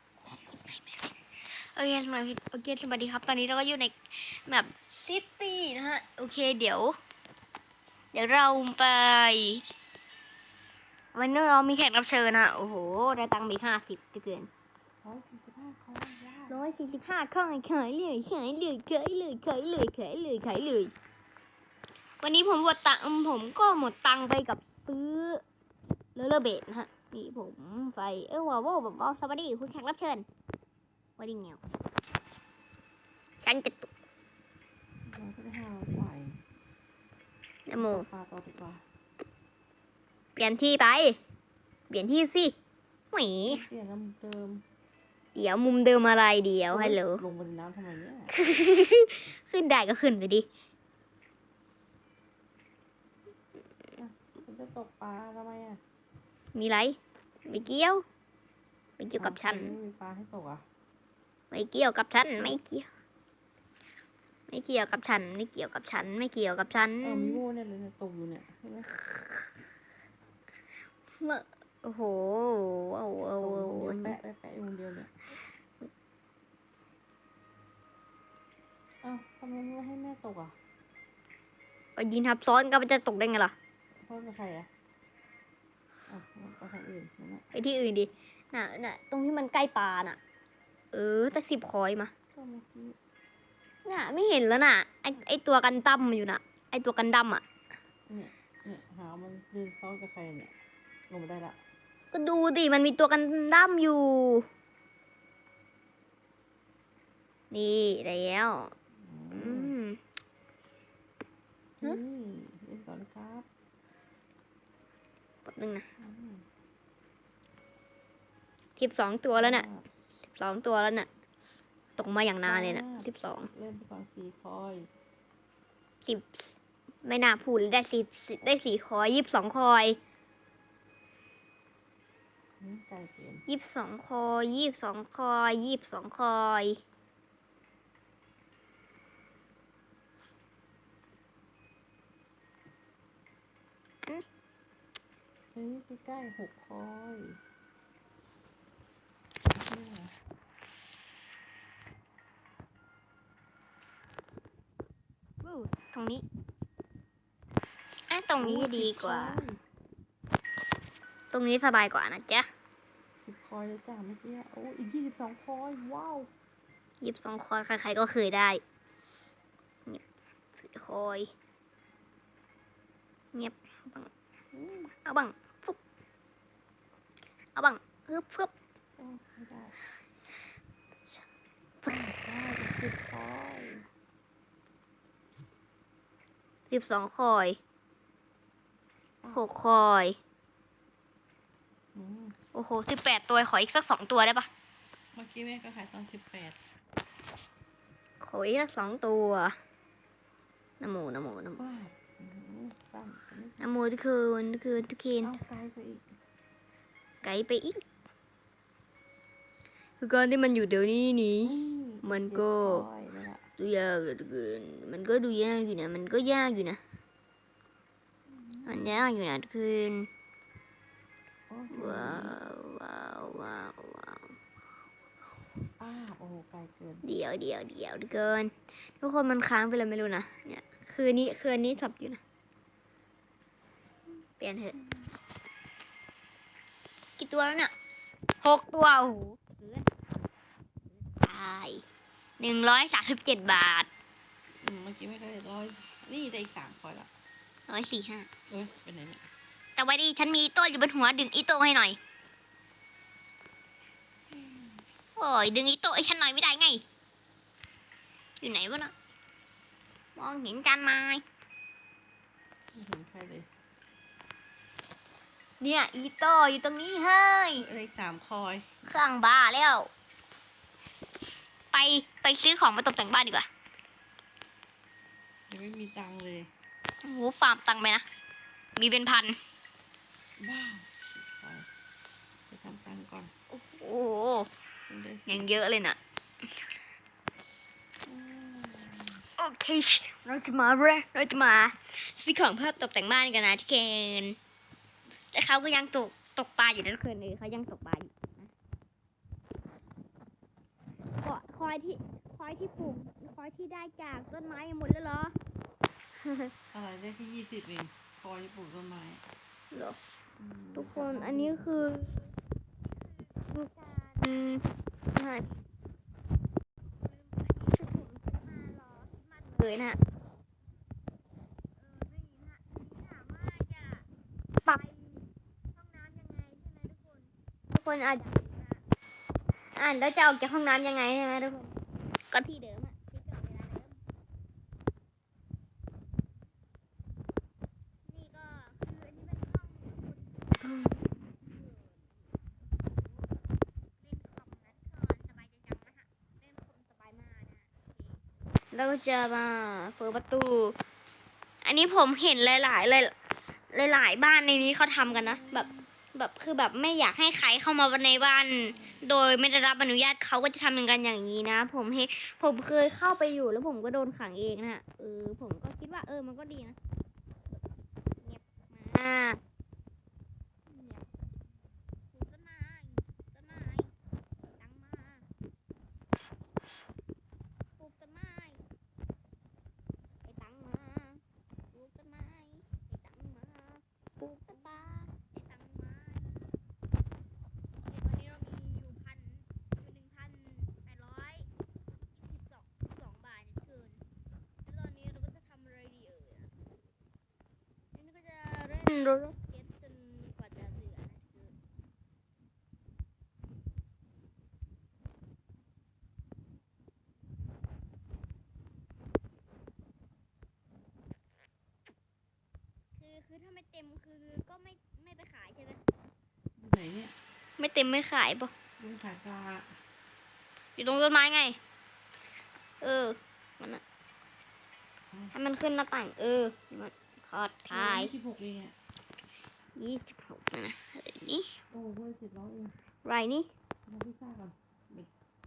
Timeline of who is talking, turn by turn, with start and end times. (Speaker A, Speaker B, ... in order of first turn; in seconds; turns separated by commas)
Speaker A: 0.3-1.1, Speaker A: 1.7-7.0, Speaker A: 8.1-9.6, Speaker A: 11.1-14.5, Speaker B: 15.0-16.6, Speaker A: 16.5-20.9, Speaker A: 22.2-25.4, Speaker A: 26.1-30.2, Speaker A: 31.2-31.6, Speaker A: 33.4-33.9, Speaker B: 35.1-36.4, Speaker A: 37.7-38.1, Speaker B: 37.8-38.8, Speaker A: 40.4-41.2, Speaker A: 41.9-42.5, Speaker A: 43.1-43.6, Speaker B: 43.4-44.6, Speaker A: 45.3-47.2, Speaker B: 46.7-48.3, Speaker A: 48.3-50.5, Speaker B: 54.0-55.8, Speaker A: 56.5-58.0, Speaker A: 59.0-59.8, Speaker B: 59.2-60.6, Speaker A: 61.5-62.9, Speaker A: 64.5-67.4, Speaker B: 67.0-68.9, Speaker A: 71.2-74.2, Speaker B: 73.4-75.1, Speaker B: 79.0-80.5, Speaker A: 82.0-83.5, Speaker B: 84.0-84.7, Speaker B: 86.1-87.4, Speaker A: 87.5-90.2, Speaker A: 90.9-92.1, Speaker B: 92.3-93.0, Speaker A: 93.8-97.4, Speaker B: 98.1-100.5, Speaker B: 101.1-101.6, Speaker A: 102.1-104.5, Speaker A: 107.5-108.7, Speaker B: 109.0-109.8, Speaker A: 109.3-110.0, Speaker B: 111.8-113.5, Speaker A: 115.4-115.9, Speaker B: 116.0-116.4, Speaker A: 118.8-119.7, Speaker B: 119.3-119.8, Speaker A: 120.3-121.1, Speaker A: 122.0-123.5, Speaker B: 122.4-124.9, Speaker A: 126.0-126.5, Speaker A: 127.0-130.0, Speaker B: 132.6-133.4, Speaker A: 133.5-136.8, Speaker B: 145.5-147.4, Speaker B: 149.6-150.1, Speaker A: 155.4-156.2, Speaker A: 158.1-159.4, Speaker B: 158.4-159.6, Speaker A: 161.3-162.5, Speaker B: 163.2-166.3, Speaker A: 167.0-168.6, Speaker A: 170.6-171.3, Speaker A: 173.3-174.1, Speaker B: 174.5-174.9, Speaker A: 175.0-175.8, Speaker A: 177.5-178.5, Speaker B: 179.0-179.7, Speaker B: 181.8-183.8, Speaker A: 186.7-187.6, Speaker A: 189.3-190.2, Speaker B: 191.9-192.3, Speaker A: 192.5-194.5, Speaker B: 195.1-196.6, Speaker A: 198.2-199.5, Speaker A: 200.8-201.6, Speaker B: 201.6-203.6, Speaker A: 203.6-205.3, Speaker B: 205.2-206.1, Speaker A: 207.2-207.8, Speaker A: 210.0-212.8, Speaker B: 211.4-213.4, Speaker A: 213.6-216.8, Speaker B: 218.3-219.0, Speaker A: 218.7-220.1, Speaker B: 221.5-222.4, Speaker A: 221.7-224.3, Speaker B: 225.8-227.0, Speaker A: 227.0-232.2, Speaker A: 234.4-234.8, Speaker A: 237.2-237.7, Speaker A: 238.4-239.8, Speaker A: 241.2-241.8, Speaker A: 242.4-243.9, Speaker B: 244.6-247.1, Speaker A: 247.7-248.3, Speaker B: 248.5-249.3, Speaker A: 249.8-252.0, Speaker B: 254.3-254.8, Speaker A: 255.2-256.8, Speaker A: 258.4-258.9, Speaker A: 260.1-261.2, Speaker B: 262.7-263.5, Speaker A: 265.6-267.6, Speaker B: 267.6-268.6, Speaker A: 268.8-269.9, Speaker A: 271.7-273.5, Speaker B: 275.5-276.5, Speaker A: 277.0-278.0, Speaker A: 278.8-279.4, Speaker B: 280.4-281.7, Speaker B: 282.5-283.3, Speaker A: 283.5-284.5, Speaker B: 284.9-285.5, Speaker A: 285.3-286.0, Speaker B: 288.1-289.2, Speaker A: 289.4-294.4, Speaker A: 295.3-298.5, Speaker A: 301.2-305.3, Speaker A: 306.2-306.5, Speaker B: 306.7-309.2, Speaker A: 309.7-310.0, Speaker B: 310.4-311.9, Speaker A: 310.7-312.3, Speaker A: 313.0-315.5, Speaker A: 317.0-320.0, Speaker A: 321.8-324.1, Speaker A: 324.6-328.8, Speaker A: 329.8-331.8, Speaker A: 332.3-333.9, Speaker A: 338.1-342.2, Speaker A: 342.7-343.3, Speaker A: 344.0-347.9, Speaker A: 348.7-350.8, Speaker A: 351.6-353.1, Speaker A: 353.7-366.8, Speaker B: 355.0-355.9, Speaker B: 358.6-359.0, Speaker A: 368.2-369.4, Speaker A: 370.7-371.1, Speaker A: 372.1-373.9, Speaker A: 374.6-375.2, Speaker A: 377.8-378.6, Speaker A: 380.2-386.6, Speaker A: 387.9-391.5, Speaker A: 392.1-394.0, Speaker A: 394.6-396.5, Speaker A: 397.9-401.5, Speaker A: 413.0-415.8, Speaker B: 416.6-417.1, Speaker A: 417.6-418.5, Speaker B: 418.8-419.7, Speaker A: 420.8-421.6, Speaker A: 422.8-423.8, Speaker A: 425.3-428.1, Speaker B: 427.7-428.7, Speaker A: 429.8-431.5, Speaker B: 431.7-432.7, Speaker A: 433.0-433.5, Speaker B: 433.9-435.1